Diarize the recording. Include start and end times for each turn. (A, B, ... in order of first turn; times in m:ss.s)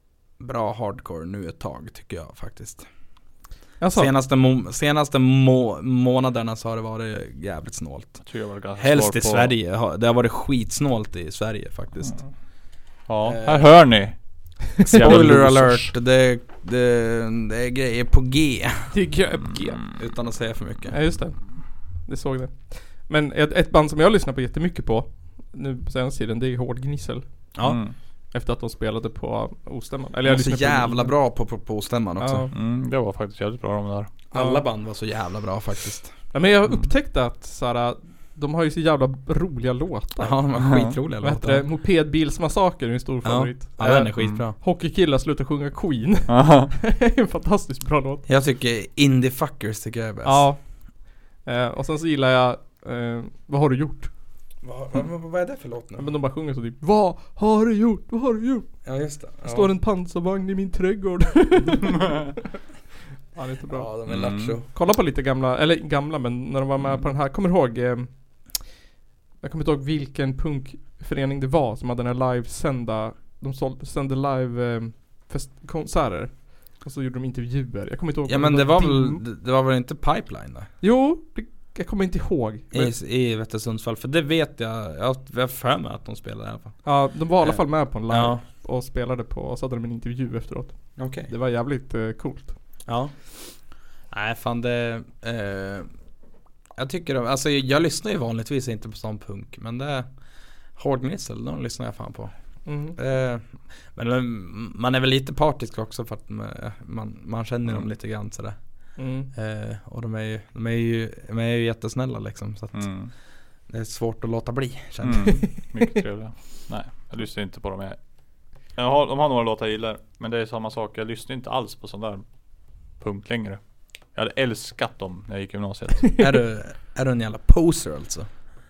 0:00.4-0:02.9 A
0:03.8-0:04.1 B
0:03.9-0:08.2 A
0:08.2-0:09.5 C
0:08.8-0:12.2 A
0:13.1-0:14.1 C
0:13.2-0:13.7 A
0:14.7-0:15.9 C
0:14.8-0:18.9 A
0:18.9-0:19.8 B
0:19.9-0:21.0 A
0:20.9-0:21.4 B
0:22.0-0:27.2 B
0:27.6-0:27.8 A
0:27.6-0:27.9 C
0:28.3-0:31.1 B
0:30.2-0:32.5 A
0:32.2-0:32.5 B
0:32.5-0:34.1 C
0:34.3-0:36.1 A
0:34.3-0:34.6 B
0:36.3-0:40.4 B
0:40.2-0:41.6 A
0:40.6-0:40.9 C
0:41.2-0:48.2 B
0:43.2-0:44.6 A
0:46.3-0:46.7 C
0:48.3-0:50.5 A
0:50.2-0:50.6 B
0:51.4-0:54.1 B
0:54.6-0:56.1 A
0:56.0-0:58.7 B
0:58.8-0:59.7 A
0:59.4-1:02.3 B
1:03.4-1:03.9 B
1:03.7-1:04.7 A
1:04.1-1:04.6 C
1:04.7-1:08.1 B
1:09.4-1:19.2 B
1:18.3-1:20.7 A
1:20.8-1:22.9 B
1:22.7-1:26.8 A
1:26.8-1:32.5 B
1:27.4-1:28.4 A
1:31.0-1:31.3 A
1:32.9-1:33.1 A
1:34.1-1:35.9 A
1:36.8-1:40.1 A
1:40.8-1:42.3 A
1:42.7-1:43.0 B
1:43.0-1:48.6 A
1:49.0-1:49.3 B
1:49.3-1:52.9 A
1:52.7-1:53.1 C
1:53.7-1:55.4 A
1:55.0-1:58.0 C
1:58.8-2:02.2 C
2:03.0-2:03.6 C
2:04.1-2:06.2 C
2:06.2-2:08.3 A